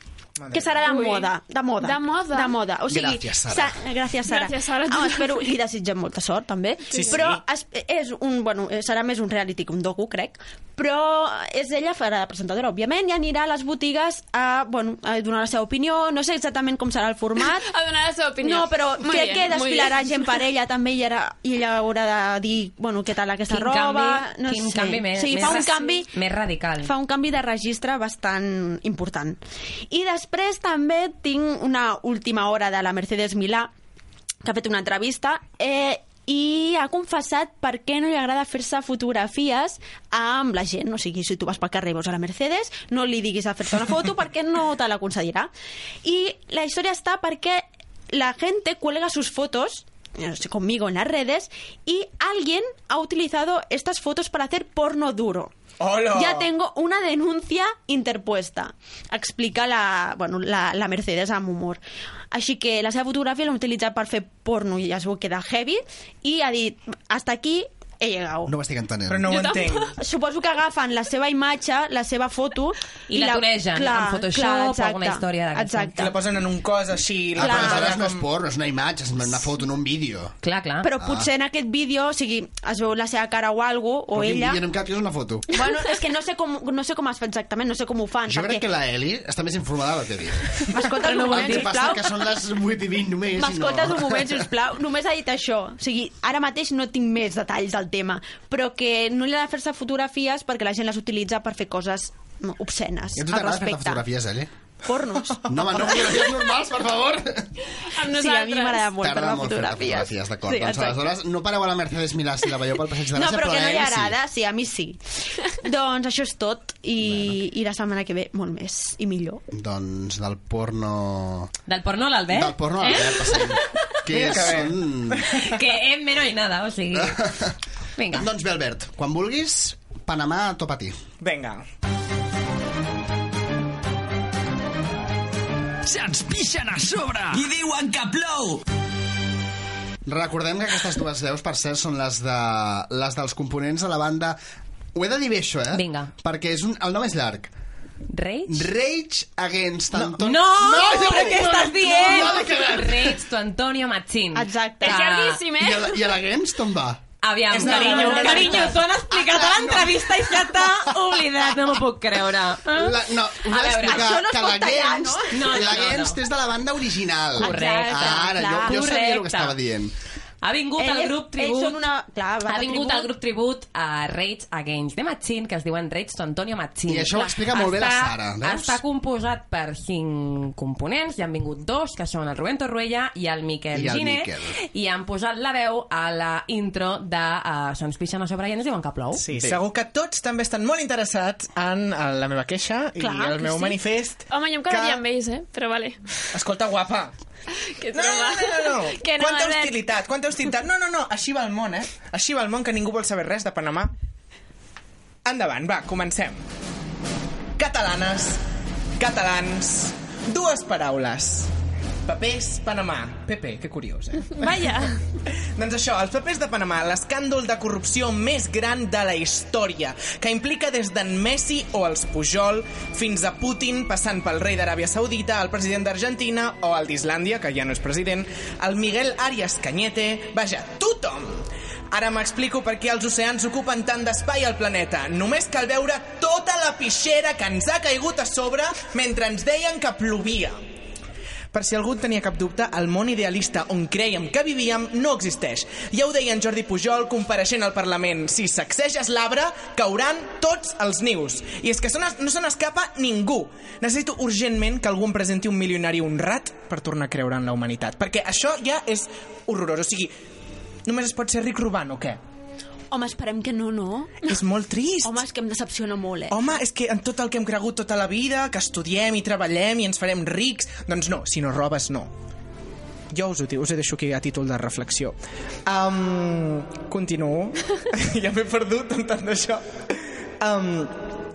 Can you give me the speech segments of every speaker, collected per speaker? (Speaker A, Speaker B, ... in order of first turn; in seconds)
Speaker A: 0.4-0.9, 6.9-7.4, 55.8-56.5, 69.1-69.9, 76.0-78.2, 124.1-125.4, 131.2-131.6, 157.5-158.8, 189.2-195.0, 196.3-197.1, 197.9-203.9, 205.2-206.4, 207.6-208.4, 209.0-211.5, 212.1-214.9, 215.6-240.6, 241.5-260.1, 260.9-262.2, 264.2-265.2, 266.3-272.1, 273.1-275.1, 275.7-281.1
Speaker B: 0.5-17.7, 18.4-26.1, 26.8-33.7, 34.4-45.5, 46.0-55.5, 56.1-68.5, 70.0-76.2, 77.4-77.9, 80.8-84.6, 85.5-88.7, 90.7-92.1, 93.4-104.1, 104.8-106.0, 108.0-111.0, 113.1-119.4, 150.9-151.3, 154.3-155.0, 157.7-158.7, 163.8-165.8, 167.4-169.0, 170.8-173.1, 193.0-193.8, 262.9-264.3, 265.0-266.4
Speaker C: 0.9-2.6, 4.3-5.5, 17.7-20.3, 69.3-69.8, 107.9-108.9, 154.8-156.0, 194.3-196.0, 197.8-199.8, 214.4-215.0
Speaker D: 2.9-3.8, 68.5-69.4, 77.3-80.4, 81.0-81.3, 84.1-85.5, 88.3-94.5, 103.2-104.5, 105.4-107.5, 109.0-114.2, 117.0-117.3, 119.5-121.5, 122.3-125.3, 127.0-127.5, 128.1-131.0, 140.1-144.4, 144.9-147.5, 148.5-153.2, 155.6-157.1, 157.6-158.1, 158.8-161.3, 162.7-169.9, 176.9-178.8, 183.7-184.6
Speaker E: 23.5-26.9, 73.1-76.1, 80.4-80.9, 91.0-91.6, 121.7-123.6, 125.3-127.2, 128.0-128.3, 145.7-146.1, 148.1-148.6, 149.9-155.4, 157.2-164.1, 165.3-166.2, 167.4-169.6, 170.4-171.8, 172.5-189.2
Speaker F: 135.8-138.6